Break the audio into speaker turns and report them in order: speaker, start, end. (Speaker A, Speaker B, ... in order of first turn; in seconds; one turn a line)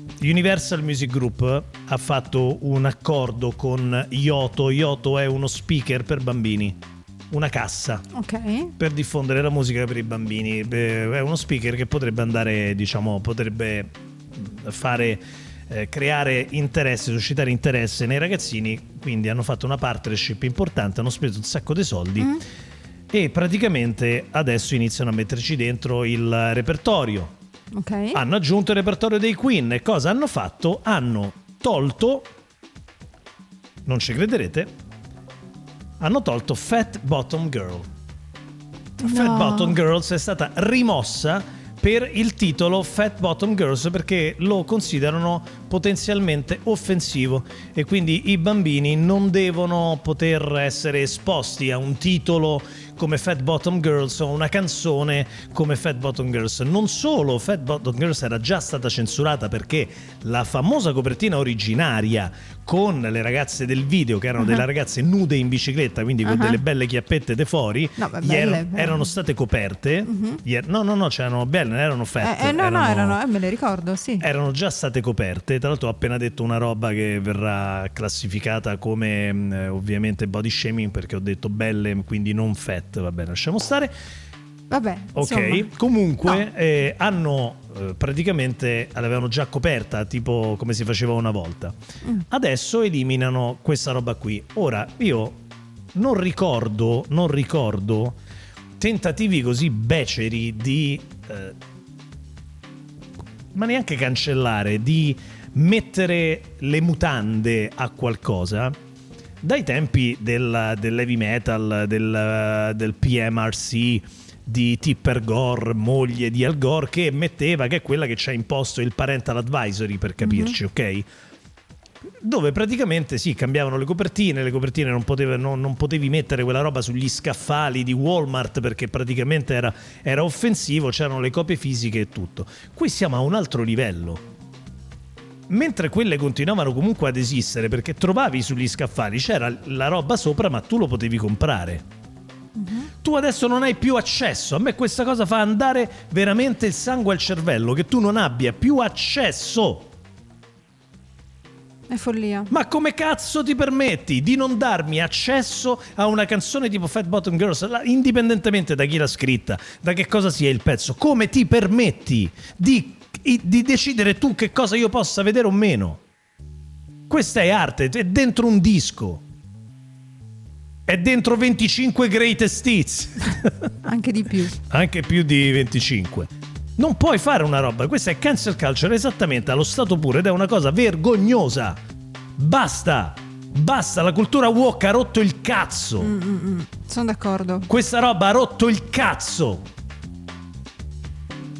Speaker A: 0.2-6.8
Speaker A: 7.3-8.0
Speaker B: 8.1-8.7
Speaker A: 8.8-22.4
Speaker A: 23.1-27.3
Speaker B: 27.7-28.2
Speaker A: 28.1-32.3
Speaker A: 33.8-34.7
Speaker A: 36.0-37.9
Speaker B: 39.0-39.8
Speaker A: 39.0-73.2
Speaker B: 64.4-64.6
Speaker B: 66.2-66.6
Speaker B: 68.0-69.1
Speaker B: 70.0-70.4
Speaker B: 72.2-74.2
Speaker A: 74.2-83.9
Speaker B: 84.7-85.7
Speaker A: 85.2-91.8
Speaker A: 92.3-95.4
Speaker A: 95.9-98.2
Speaker A: 98.8-101.5
Speaker A: 103.5-108.8
Speaker A: 109.4-121.0
Speaker B: 120.2-120.6
Speaker A: 122.2-134.2
Speaker A: 135.5-141.8
Speaker B: 142.5-142.9
Speaker A: 143.0-149.9
Speaker B: 151.9-152.5
Speaker A: 152.5-166.0
Speaker A: 167.1-169.2
Speaker A: 170.9-173.5
Speaker B: 173.8-174.5
Speaker A: 174.7-181.8
Speaker A: 182.4-186.1
Speaker B: 186.0-187.7
Speaker A: 187.7-189.6